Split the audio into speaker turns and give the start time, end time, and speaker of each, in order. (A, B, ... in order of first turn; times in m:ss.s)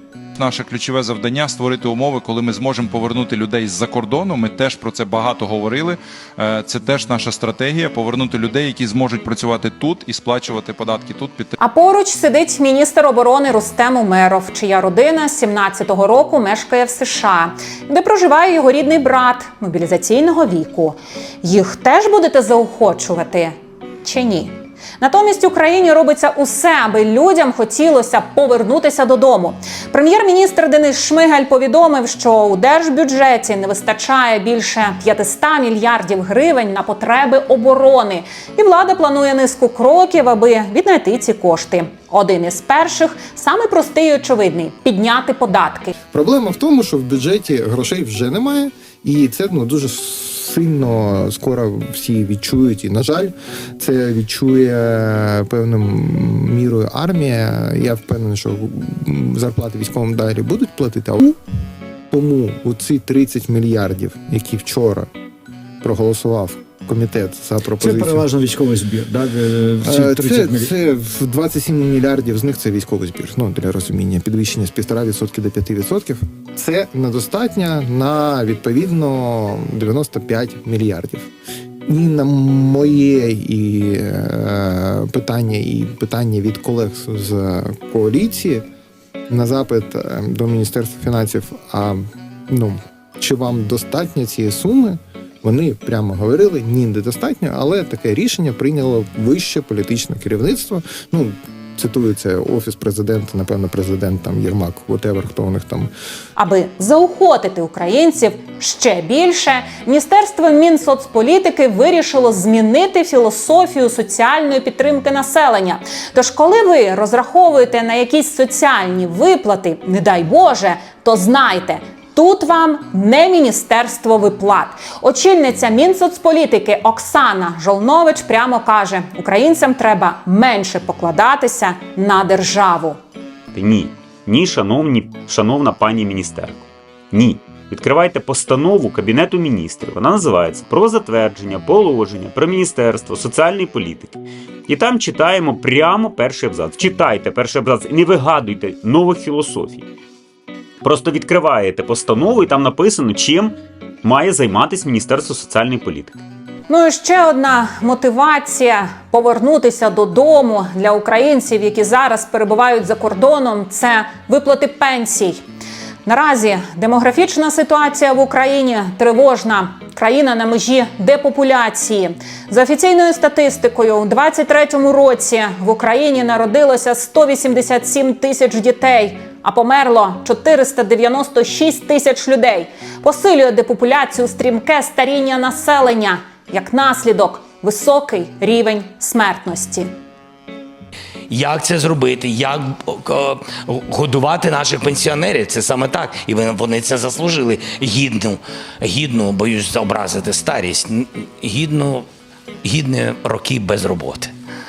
0:00.4-0:11.6 A
0:11.6-0:45.9 B
0:46.1-1:01.4 C
1:02.1-1:05.1 C
1:05.8-1:08.3 C
1:07.8-1:10.7 D
1:09.8-1:21.3 C
1:21.9-1:28.6 C
1:29.3-1:45.9 C
1:46.4-2:13.0 B
2:13.5-2:29.9 E
2:30.8-2:36.2 E
2:36.7-2:45.4 B
2:46.0-3:09.9 B
3:11.3-3:22.1 F
3:22.6-3:24.3 F